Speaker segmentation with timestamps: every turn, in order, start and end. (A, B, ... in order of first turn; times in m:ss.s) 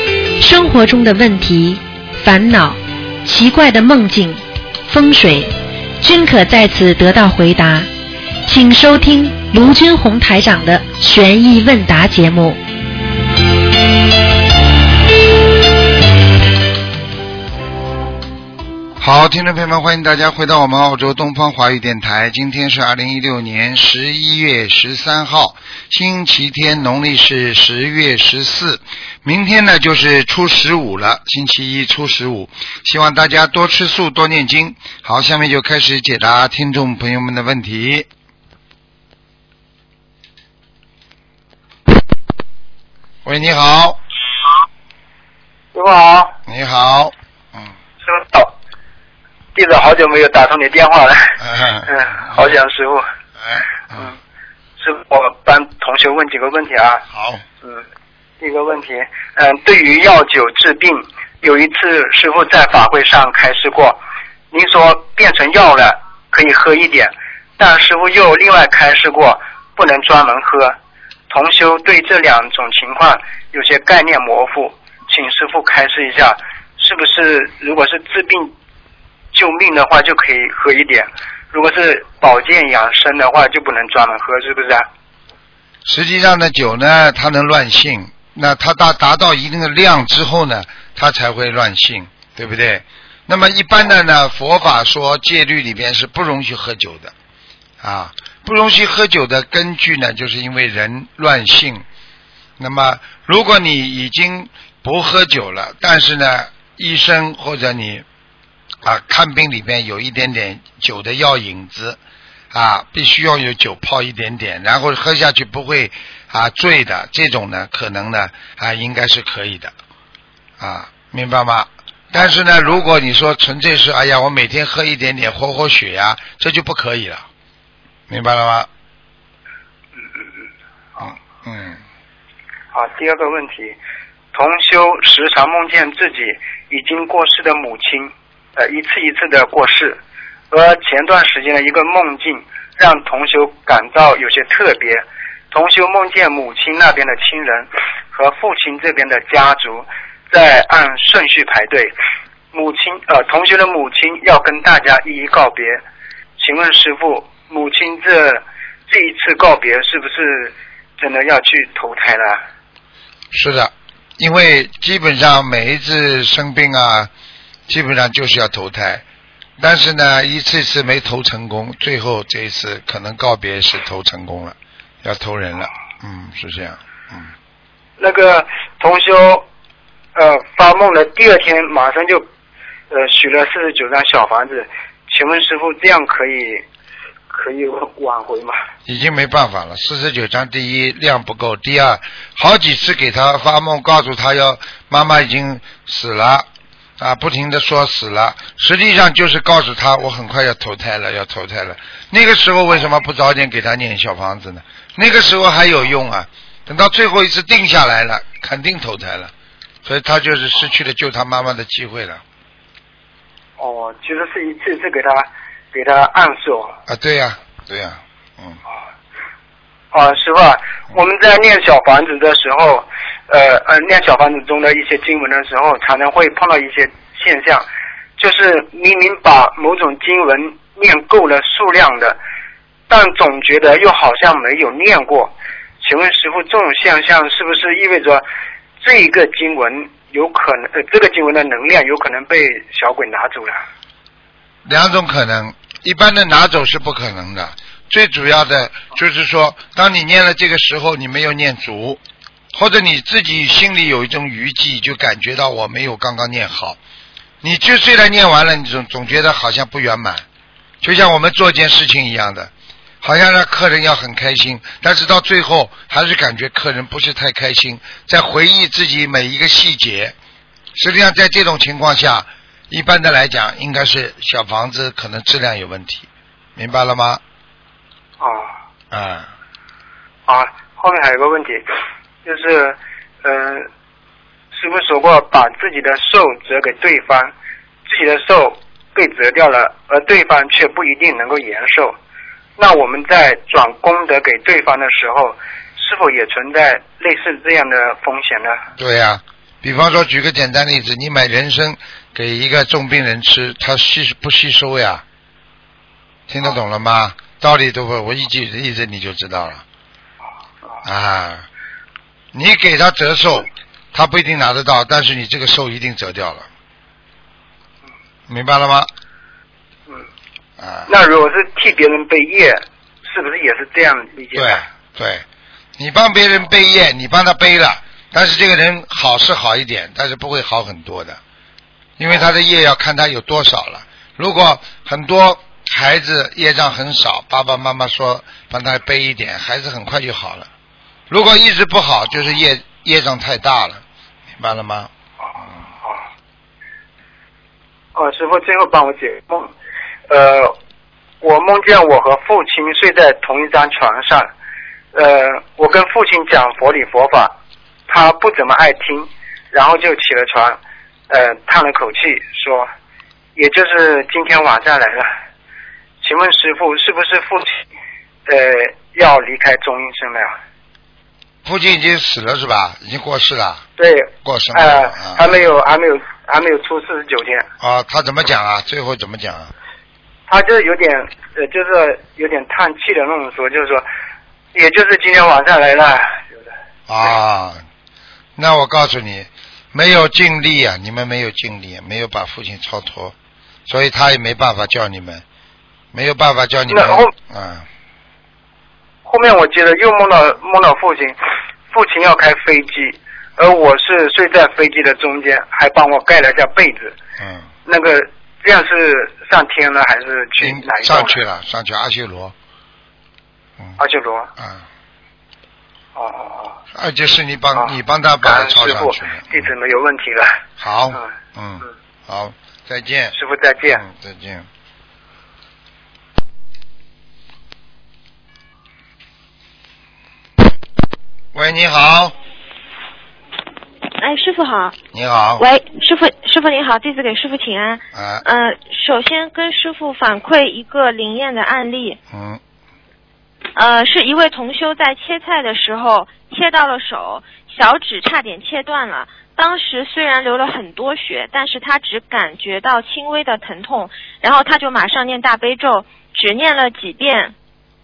0:00.4-0:07.9 A
0:08.4-0:12.6 A
0:19.0-0:38.1 B
0:43.2-0:44.0 B
0:45.7-0:46.4 C
0:46.5-0:47.7 B
0:48.0-0:48.5 C
0:49.6-0:53.0 C
0:51.4-0:52.6 B
0:53.4-0:54.1 B
0:54.8-0:57.0 C
0:57.1-0:57.4 B
0:58.4-1:04.0 C
1:04.5-1:10.7 C
1:11.3-1:18.5 C
1:19.3-1:24.9 C
1:25.8-1:37.1 B
1:37.8-1:41.8 B
1:42.6-1:48.0 B
1:48.8-1:52.0 B
1:52.5-1:59.7 B
2:00.6-2:07.2 B
2:08.1-2:08.7 B
2:11.0-2:11.8 B
2:12.7-2:13.8 C
2:14.3-2:20.0 C
2:20.5-2:31.9 C
2:32.5-2:35.8 C
2:36.4-2:42.4 C
2:43.3-2:47.1 B
2:47.7-2:49.0 B
2:49.6-2:57.3 B
2:58.0-2:59.4 C
3:00.1-3:02.2 C
3:02.9-3:06.6 C
3:07.3-3:08.6 C
3:08.8-3:16.5 B
3:17.0-3:29.3 B
3:29.8-3:32.2 B
3:33.6-3:36.8 C
3:36.9-3:38.6 B
3:39.9-3:52.2 C
3:52.9-3:58.2 C
3:58.8-4:03.6 C
4:04.6-4:12.0 B
4:12.5-4:16.8 B
4:17.4-4:20.2 B
4:20.8-4:22.5 B
4:23.0-4:30.2 B
4:30.8-4:37.2 B
4:38.2-4:38.5 C
4:38.9-4:39.3 B
4:40.3-4:41.6 C
4:42.2-4:43.7 C
4:44.5-4:47.3 C
4:47.9-4:51.9 C
4:52.6-4:58.6 C
4:58.8-5:05.0 B
5:06.3-5:09.6 B
5:10.8-5:11.4 B
5:12.3-5:16.5 B
5:18.3-5:18.9 B
5:20.6-5:20.9 B
5:20.9-5:24.6 C
5:24.3-5:25.2 B
5:25.8-5:31.2 B
5:32.0-5:40.5 B
5:41.1-5:44.9 B
5:47.9-5:49.5 C
5:50.1-5:50.6 C
5:51.2-5:54.3 C
5:54.9-5:57.3 C
5:57.9-6:00.6 C
6:01.1-6:02.7 C
6:03.4-6:05.1 C
6:06.0-6:07.6 C
6:08.3-6:10.3 C
6:11.4-6:13.6 B
6:13.8-6:17.4 C
6:14.2-6:15.3 B
6:17.6-6:19.5 B
6:20.3-6:23.9 C
6:24.5-6:26.2 C
6:26.9-6:27.6 B
6:28.4-6:33.1 B
6:33.7-6:35.2 B
6:35.9-6:37.7 B
6:36.7-6:37.1 C
6:39.0-6:41.2 C
6:41.7-6:47.0 C
6:47.2-6:47.5 B
6:47.6-6:51.2 C
6:50.4-6:52.3 B
6:53.8-6:54.3 C
6:54.4-6:54.6 B
6:56.0-6:56.6 C
6:56.7-6:59.5 B
6:58.2-7:00.4 C
7:00.6-7:03.1 B
7:03.1-7:03.8 C
7:03.7-7:04.5 B
7:11.3-7:12.1 B
7:14.0-7:14.8 D
7:14.9-7:15.4 B
7:15.4-7:22.0 D
7:17.9-7:18.2 B
7:22.1-7:22.4 B
7:23.6-7:37.3 D